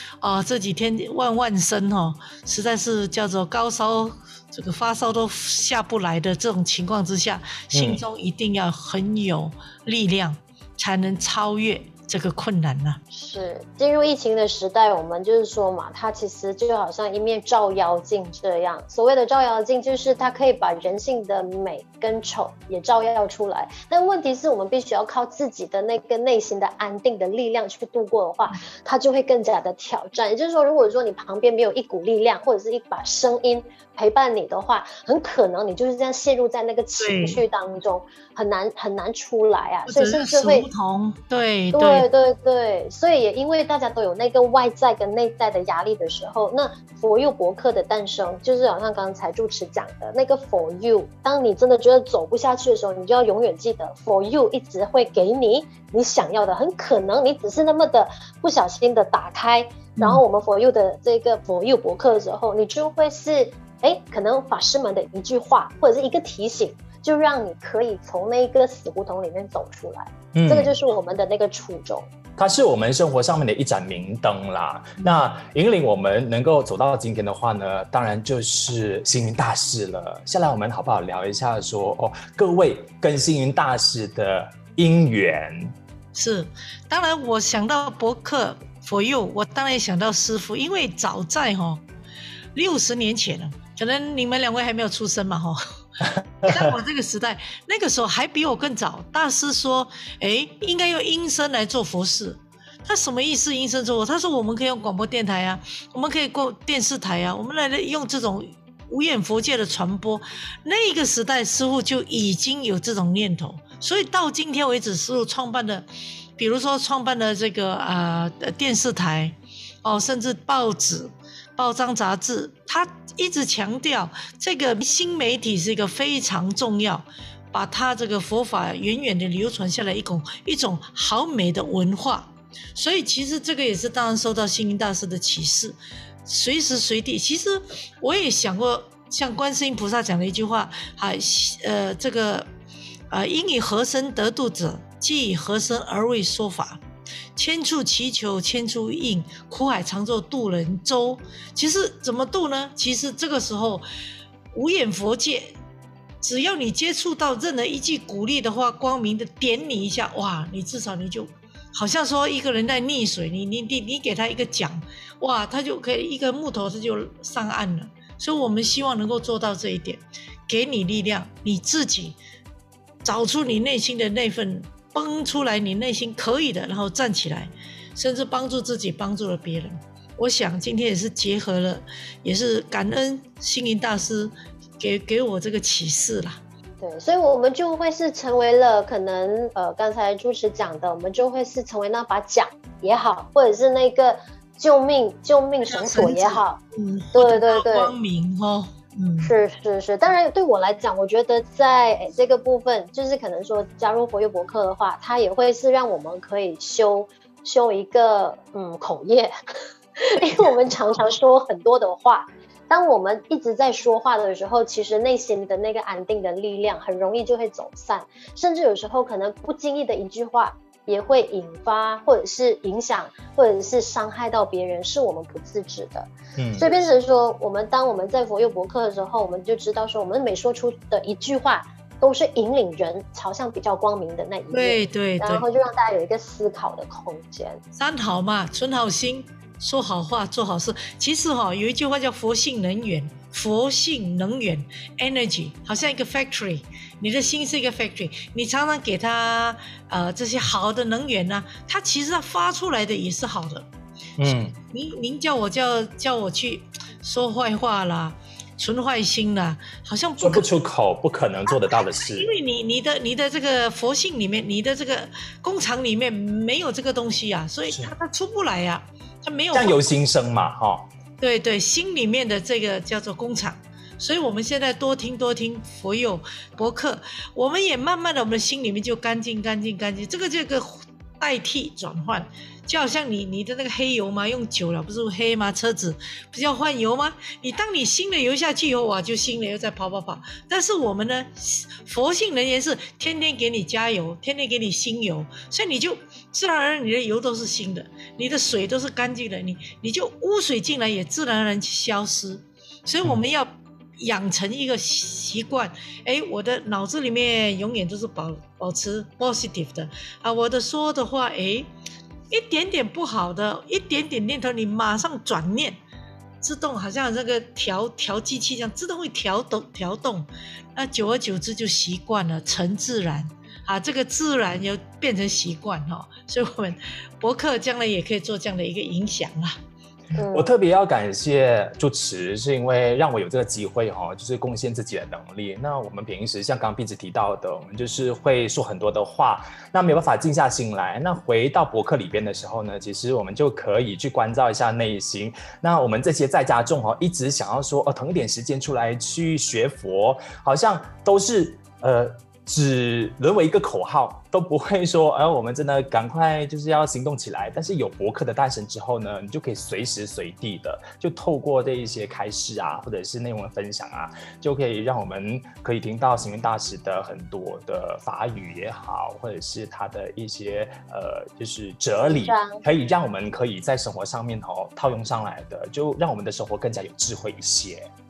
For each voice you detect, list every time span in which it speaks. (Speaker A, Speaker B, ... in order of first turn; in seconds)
Speaker A: 0.2-13.0, 37.0-37.4, 39.9-42.1, 60.0-60.2, 75.0-75.2, 86.1-91.8, 92.5-95.6, 96.4-115.8, 116.4-142.5, 143.1-146.8, 147.3-153.8, 154.5-155.6, 156.2-172.2, 173.0-186.4, 195.7-199.3, 234.5-235.4, 237.7-253.7, 254.3-260.5, 261.5-269.8, 271.2-311.7, 312.3-315.8, 316.4-329.6
Speaker B: 7.7-8.0, 70.3-70.7, 72.4-85.7, 96.2-96.7, 226.4-226.7, 254.2-254.6, 260.2-262.3, 269.5-270.9, 330.3-377.9
Speaker C: 13.1-40.7, 41.7-72.1, 186.8-196.6, 197.1-197.9, 199.2-209.3, 210.0-237.6, 330.2-330.5, 372.1-372.6